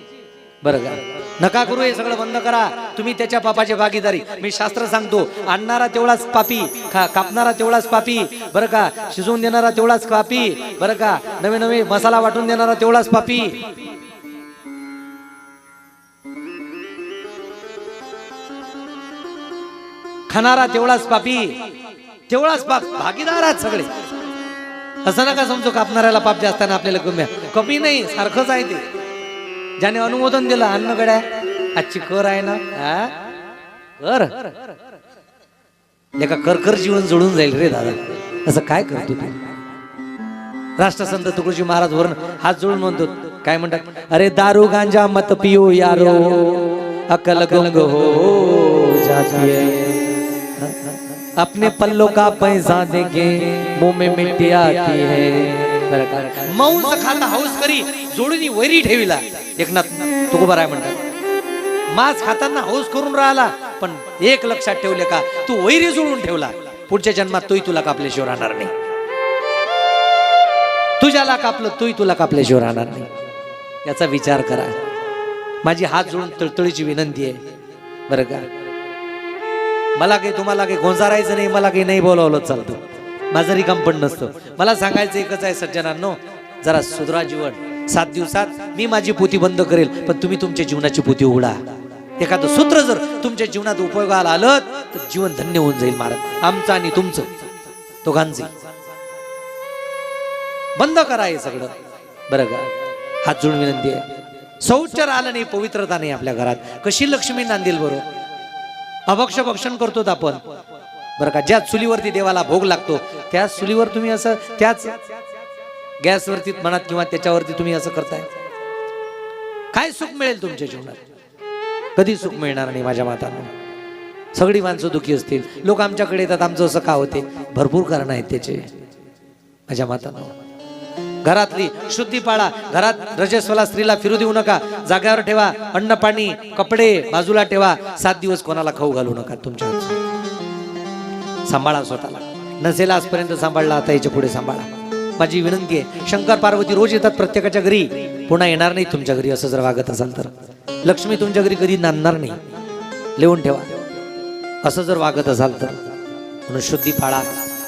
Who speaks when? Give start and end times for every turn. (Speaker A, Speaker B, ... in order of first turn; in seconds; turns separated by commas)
Speaker A: 0.6-13.7, Speaker A: 20.3-21.7, Speaker A: 22.3-23.9, Speaker A: 25.0-28.9, Speaker A: 29.8-33.2, Speaker A: 34.0-34.5, Speaker A: 36.2-39.4, Speaker A: 40.8-61.0, Speaker A: 61.9-68.7, Speaker A: 71.0-73.1, Speaker A: 73.8-74.8, Speaker A: 75.6-77.4, Speaker A: 78.1-78.5, Speaker A: 80.0-97.3, Speaker A: 98.0-98.5, Speaker A: 100.8-101.7, Speaker A: 102.3-102.7, Speaker A: 103.2-104.1, Speaker A: 104.6-108.1, Speaker A: 109.1-110.4, Speaker A: 111.2-115.0, Speaker A: 116.0-118.3, Speaker A: 119.7-121.0, Speaker A: 122.0-123.5, Speaker A: 124.3-128.7, Speaker A: 129.7-130.3, Speaker A: 131.2-140.0, Speaker A: 141.5-150.3, Speaker A: 150.8-152.4, Speaker A: 153.2-153.8, Speaker A: 154.6-155.8, Speaker A: 156.5-157.3